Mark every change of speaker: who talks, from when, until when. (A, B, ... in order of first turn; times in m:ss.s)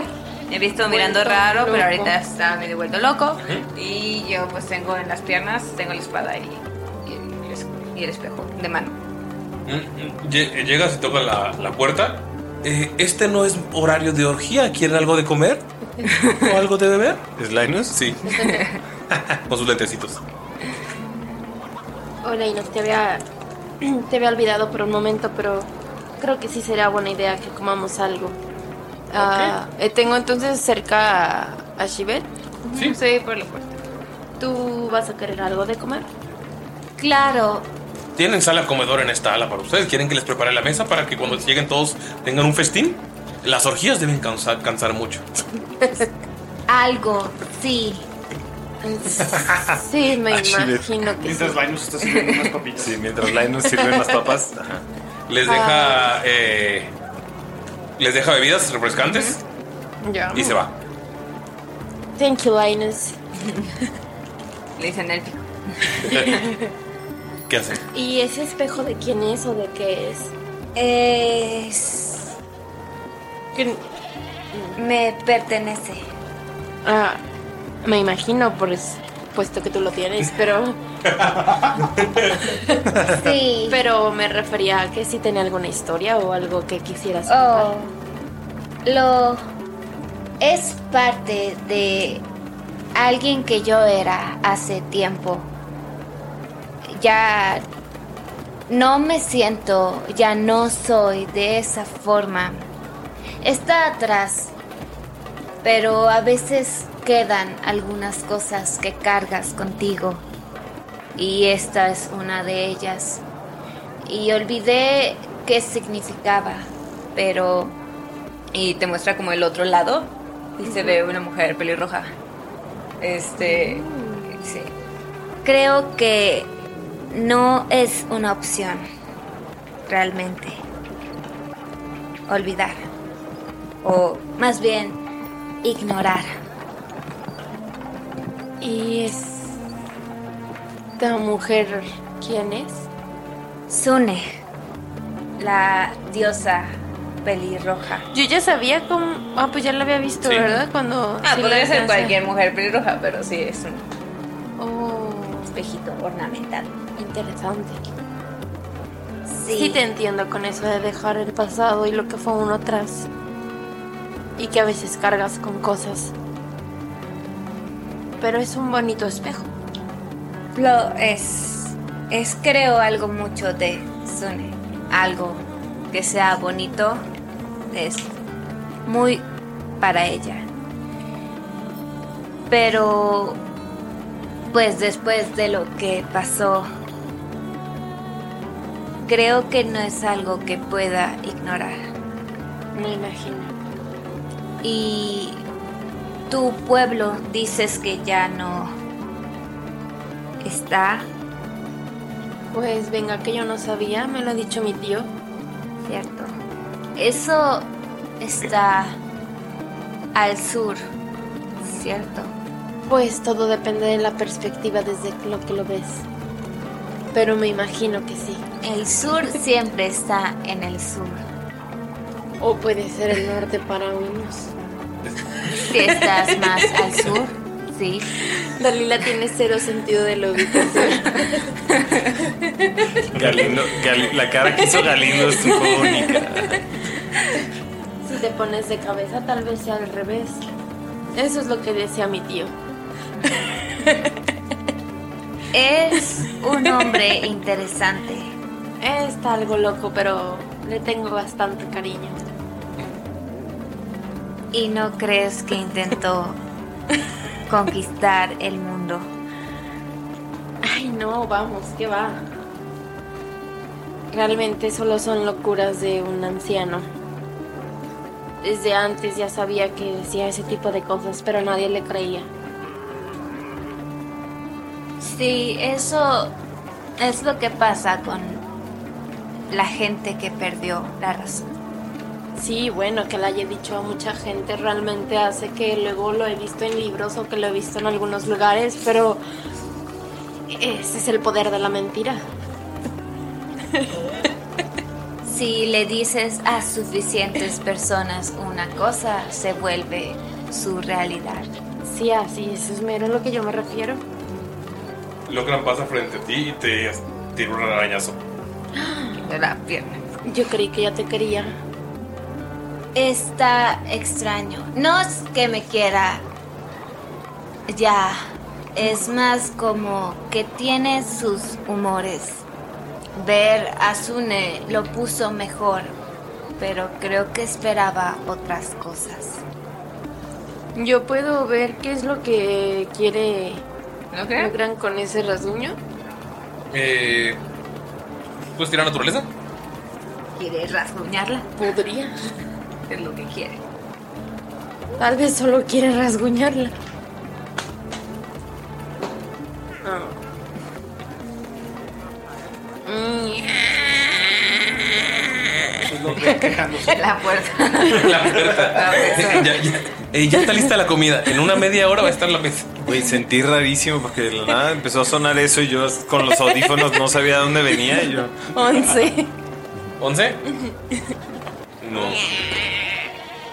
0:00.5-0:09.0 A
0:00.9-0:02.2 B
0:03.4-0:03.7 C
0:09.7-0:15.7 C
0:16.4-0:17.3 C
0:17.4-0:18.1 D
0:17.9-0:18.2 C
0:18.4-0:18.6 B
0:18.4-0:18.8 A
0:19.1-0:19.4 D
0:19.5-0:20.2 C
0:22.2-0:23.2 B
0:23.8-0:28.4 B
0:29.1-0:32.3 B
0:29.2-0:29.6 C
0:32.7-0:33.8 A
0:34.4-0:36.1 B
0:37.0-0:37.7 E
0:38.2-0:45.3 C
0:45.8-0:46.1 B
0:46.7-0:48.1 E
0:48.8-0:51.6 B
0:49.3-0:49.8 D
0:50.3-0:50.9 D
0:51.2-0:53.0 F
0:52.8-0:54.9 D
0:53.6-0:54.2 B
0:55.3-0:56.9 C
0:55.4-0:56.1 B
0:58.0-0:59.4 C
0:59.1-0:59.4 A
1:00.0-1:00.6 B
1:00.3-1:00.7 C
1:02.2-1:03.2 B
1:04.8-1:05.5 A
1:06.0-1:06.3 A
1:07.5-1:07.8 C
1:07.9-1:10.3 B
1:10.8-1:12.3 E
1:13.6-1:13.8 B
1:14.5-1:14.8 B
1:14.8-1:16.1 E
1:16.8-1:17.2 B
1:17.8-1:20.8 B
1:21.1-1:21.4 C
1:22.0-1:22.4 C
1:23.1-1:23.8 E
1:23.7-1:27.7 B
1:27.3-1:27.9 E
1:28.8-1:29.4 E
1:30.4-1:32.2 E
1:33.0-1:35.5 E
1:36.9-1:37.7 E
1:38.7-1:42.7 E
1:43.4-1:44.5 E
1:45.6-1:50.2 E
1:51.2-1:53.2 E
1:54.0-1:57.8 E
1:58.5-2:02.1 A
2:00.6-2:01.0 B
2:03.0-2:03.8 A
2:03.4-2:04.3 B
2:05.4-2:06.6 E
2:07.1-2:08.8 E
2:09.9-2:10.6 E
2:12.3-2:12.9 E
2:13.8-2:15.0 E
2:15.6-2:16.3 E
2:18.6-2:19.6 B
2:21.0-2:22.9 B
2:23.7-2:24.3 E
2:25.4-2:28.1 E
2:28.1-2:32.2 B
2:31.2-2:33.9 A
2:34.6-2:35.6 B
2:35.5-2:36.7 A
2:37.0-2:37.8 B
2:39.3-2:39.8 E
2:39.5-2:43.1 B
2:44.4-2:46.1 B
2:48.2-2:49.5 B
2:50.6-2:57.0 E
2:57.7-2:58.1 E
2:58.9-2:59.2 E
2:59.8-3:00.5 E
3:02.5-3:03.4 E
3:04.5-3:06.7 E
3:09.1-3:11.8 E
3:12.7-3:13.6 B
3:14.6-3:15.4 E
3:16.3-3:18.7 E
3:20.4-3:21.1 E
3:22.5-3:25.1 B
3:25.8-3:26.3 E
3:27.0-3:27.7 E
3:28.2-3:29.0 E
3:30.2-3:30.8 E
3:31.6-3:32.3 E
3:32.9-3:36.1 B
3:37.1-3:38.4 B
3:38.6-3:41.2 E
3:42.4-3:44.6 B
3:45.7-3:48.1 E
3:48.4-3:51.5 B
3:53.1-3:56.6 D
3:55.5-3:55.8 A
3:58.0-4:00.4 B
4:01.2-4:02.5 B
4:03.3-4:04.2 B
4:05.5-4:08.4 E
4:08.8-4:12.2 B
4:14.5-4:16.4 E
4:17.5-4:19.1 E
4:20.6-4:22.3 B
4:24.1-4:26.9 B
4:28.4-4:32.3 B
4:35.0-4:36.4 E
4:37.0-4:38.4 E
4:39.5-4:41.5 E
4:42.4-4:49.2 B
4:50.5-4:52.2 B
4:53.7-4:54.3 B
4:55.2-5:01.5 E
5:01.8-5:04.0 B
5:05.3-5:08.2 C
5:08.8-5:09.2 B
5:09.2-5:10.0 A
5:10.2-5:11.6 B
5:13.0-5:16.2 E
5:17.7-5:22.4 E
5:23.2-5:26.0 E
5:26.6-5:29.4 E
5:30.8-5:33.6 B
5:34.1-5:34.5 A
5:34.4-5:35.8 B
5:36.7-5:37.4 C
5:38.6-5:39.3 C
5:40.4-5:41.5 A
5:41.6-5:42.1 B
5:42.9-5:43.6 A
5:45.0-5:46.7 B
5:49.8-5:50.2 B
5:52.8-5:54.0 B
5:55.8-5:57.1 F
5:56.8-5:59.6 A
5:57.9-6:02.8 C
6:02.8-6:08.4 D
6:08.5-6:09.3 B
6:10.0-6:10.4 C
6:10.6-6:11.0 B
6:11.8-6:12.2 C